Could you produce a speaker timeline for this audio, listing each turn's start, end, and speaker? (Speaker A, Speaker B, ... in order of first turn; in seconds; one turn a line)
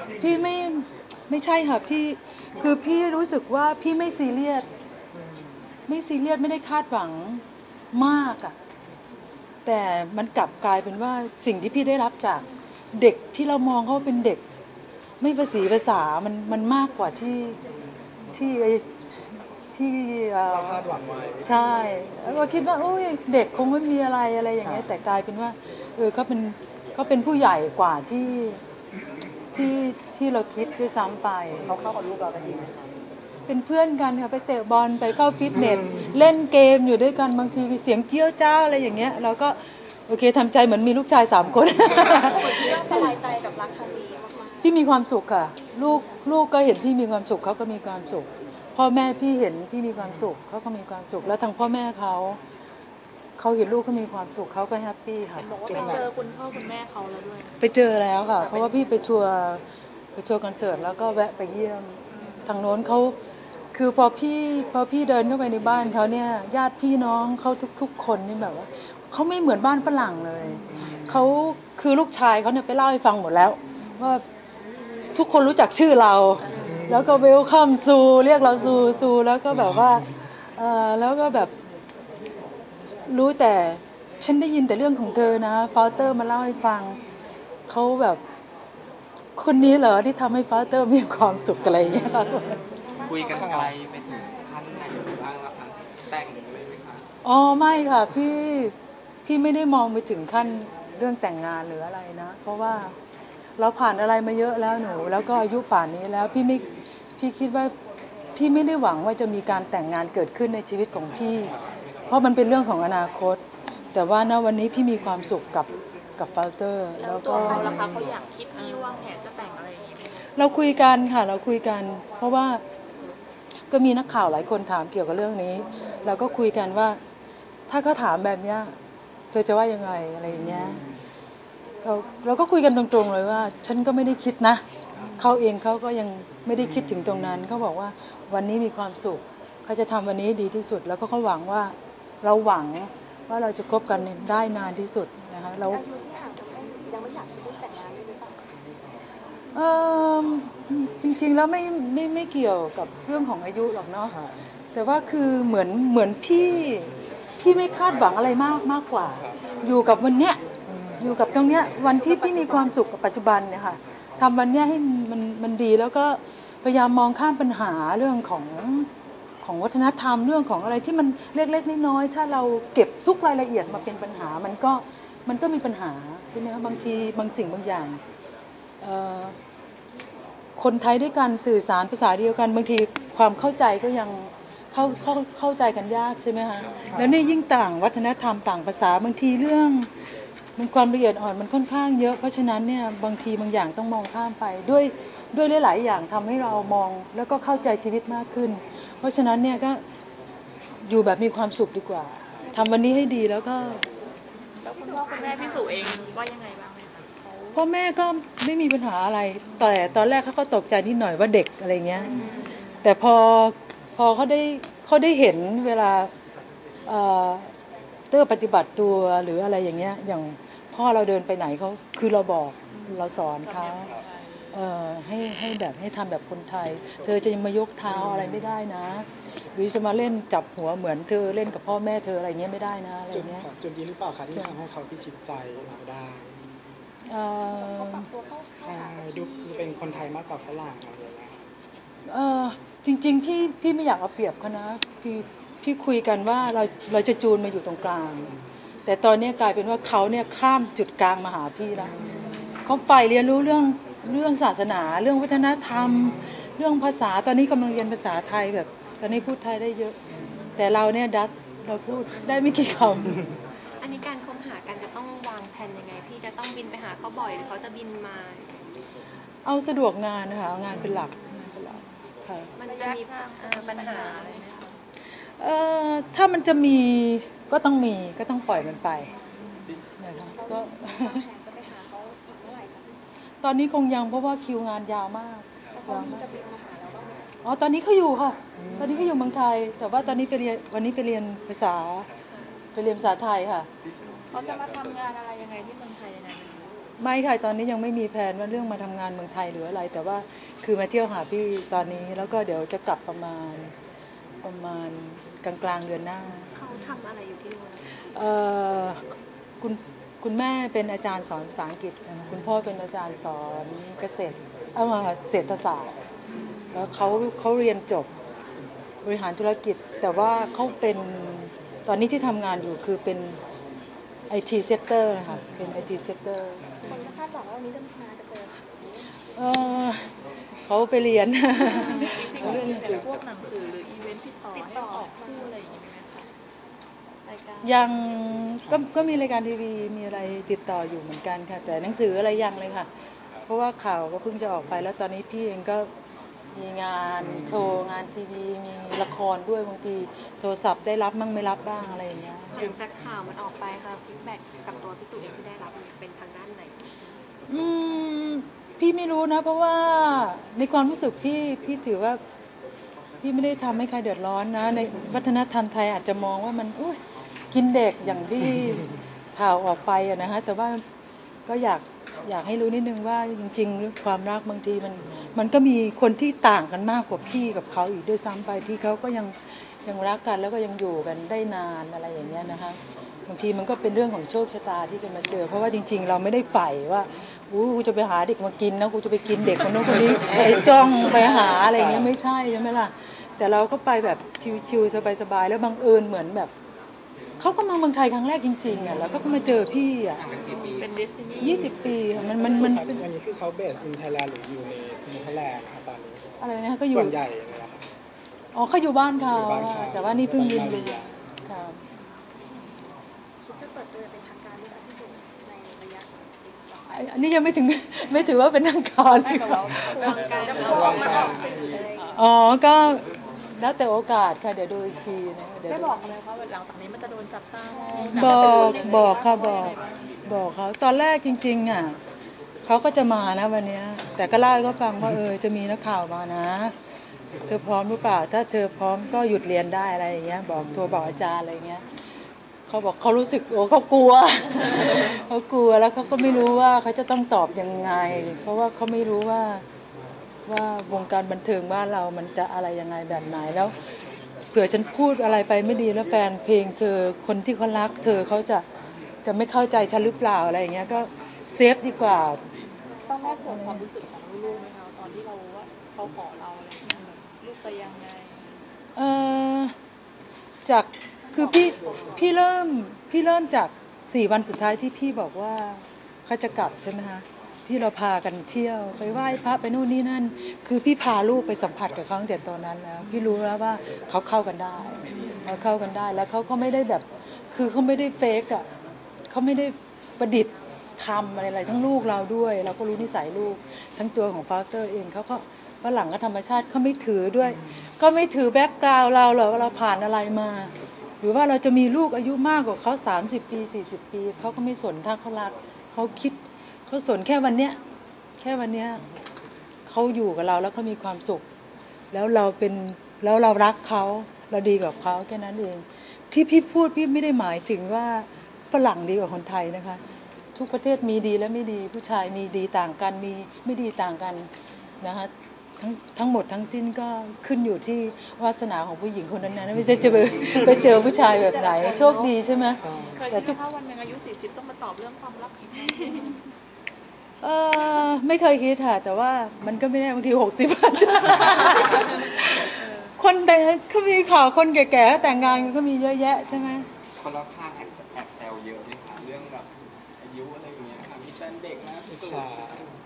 Speaker A: 0.2-4.7
Speaker B: 5.1-5.6
Speaker A: 5.9-8.6
Speaker A: 9.7-14.4
Speaker A: 15.2-17.6
Speaker A: 18.3-20.8
Speaker B: 20.5-21.5
Speaker A: 21.4-28.6
Speaker B: 24.6-24.9
Speaker A: 29.5-31.7
Speaker B: 31.6-32.7
Speaker A: 33.5-43.1
Speaker C: 42.0-44.8
Speaker A: 44.6-52.4
Speaker C: 45.5-46.3
Speaker B: 50.0-50.2
Speaker A: 53.4-56.1
Speaker C: 55.5-55.9
Speaker D: 55.6-57.5
Speaker A: 57.6-59.6
Speaker D: 58.4-58.8
Speaker A: 60.1-63.1
Speaker D: 62.1-62.5
Speaker A: 63.7-74.2
Speaker B: 70.7-71.2
Speaker A: 75.1-81.5
Speaker B: 76.6-77.2
Speaker B: 79.5-80.0
Speaker A: 83.1-87.0
Speaker A: 87.7-88.2
Speaker A: 89.3-92.6
Speaker C: 92.7-93.6
Speaker E: 93.0-97.0
Speaker B: 93.3-93.8
Speaker A: 97.2-98.7
Speaker A: 99.2-103.0
Speaker A: 103.6-106.7
Speaker A: 107.2-107.7
Speaker A: 108.3-111.5
Speaker A: 112.1-113.4
Speaker A: 113.9-117.8
Speaker D: 117.0-120.5
Speaker B: 117.3-118.1
Speaker F: 118.6-118.9
Speaker A: 120.3-122.6
Speaker A: 123.7-127.0
Speaker A: 127.7-128.7
Speaker A: 129.3-130.8
Speaker B: 130.5-130.8
Speaker A: 131.8-134.6
Speaker A: 135.2-145.8
Speaker C: 145.7-148.4
Speaker A: 149.5-154.1
Speaker B: 154.1-154.3
Speaker A: 154.7-160.4
Speaker B: 160.7-161.1
Speaker A: 161.0-168.9
Speaker A: 169.4-178.0
Speaker A: 178.8-179.3
Speaker A: 180.6-189.9
Speaker B: 186.8-187.2
Speaker A: 190.6-199.8
Speaker A: 200.8-203.8
Speaker D: 204.6-207.6
Speaker F: 204.8-206.1
Speaker C: 204.9-205.8
Speaker A: 207.5-212.3
Speaker F: 212.0-212.5
Speaker D: 212.0-212.9
Speaker A: 212.8-216.1
Speaker A: 216.8-217.5
Speaker A: 218.1-223.9
Speaker D: 222.7-224.6
Speaker A: 224.5-233.5
Speaker B: 227.8-228.4
Speaker B: 233.1-236.3
Speaker A: 237.1-238.1
Speaker C: 237.5-240.0
Speaker B: 238.6-241.4
Speaker A: 242.1-248.3
Speaker A: 248.8-251.9
Speaker B: 251.8-252.3
Speaker A: 252.6-260.0
Speaker A: 260.6-263.2
Speaker F: 263.8-268.5
Speaker A: 269.4-272.5
Speaker F: 272.6-274.4
Speaker D: 272.6-274.8
Speaker A: 275.1-279.1
Speaker A: 280.0-281.2
Speaker C: 280.2-283.0
Speaker A: 283.4-286.2
Speaker C: 285.7-287.4
Speaker A: 287.4-292.1
Speaker B: 288.6-289.1
Speaker A: 292.7-293.7
Speaker D: 294.3-296.8
Speaker E: 294.4-294.8
Speaker A: 297.0-303.7
Speaker A: 304.4-306.5
Speaker F: 306.5-307.8
Speaker A: 308.1-309.0
Speaker A: 309.6-315.9
Speaker D: 316.3-316.9
Speaker A: 316.7-318.1
Speaker A: 319.0-323.4
Speaker A: 324.3-326.7
Speaker D: 326.8-327.1
Speaker C: 326.8-329.0
Speaker A: 329.3-333.0
Speaker D: 331.5-336.3
Speaker B: 332.4-332.8
Speaker C: 334.5-335.6
Speaker D: 337.2-337.9
Speaker A: 337.6-342.9
Speaker A: 343.5-345.9
Speaker A: 346.5-352.6
Speaker B: 347.2-347.6
Speaker F: 352.5-356.8
Speaker A: 357.5-362.2
Speaker A: 363.2-367.0
Speaker A: 367.5-370.8
Speaker A: 371.5-396.5
Speaker A: 397.4-400.2
Speaker E: 400.1-400.9
Speaker D: 400.4-402.0
Speaker A: 401.4-403.1
Speaker B: 402.0-407.9
Speaker A: 406.4-407.2
Speaker A: 408.5-411.8
Speaker B: 409.2-411.1
Speaker C: 413.4-417.0
Speaker A: 416.9-420.2
Speaker D: 419.1-421.8
Speaker F: 419.9-421.4
Speaker C: 420.4-422.1
Speaker B: 420.6-421.5
Speaker A: 421.9-426.0
Speaker D: 425.7-429.9
Speaker C: 427.7-428.1
Speaker A: 428.1-432.0
Speaker A: 432.6-436.7
Speaker A: 437.5-441.8
Speaker A: 442.7-449.6
Speaker A: 450.4-453.7
Speaker A: 454.5-458.6
Speaker A: 459.2-462.4
Speaker C: 462.9-463.6
Speaker D: 463.1-468.6
Speaker A: 463.4-463.8
Speaker A: 468.9-469.7
Speaker A: 470.6-488.6
Speaker C: 471.3-472.3
Speaker A: 489.3-507.8
Speaker A: 508.4-509.0
Speaker A: 509.9-511.4
Speaker A: 512.1-520.0
Speaker A: 520.5-524.5
Speaker A: 525.0-533.6
Speaker B: 532.8-533.2
Speaker D: 533.1-536.4
Speaker A: 537.4-546.9
Speaker D: 542.6-543.1
Speaker E: 547.2-549.7
Speaker E: 550.2-552.9
Speaker B: 552.0-552.9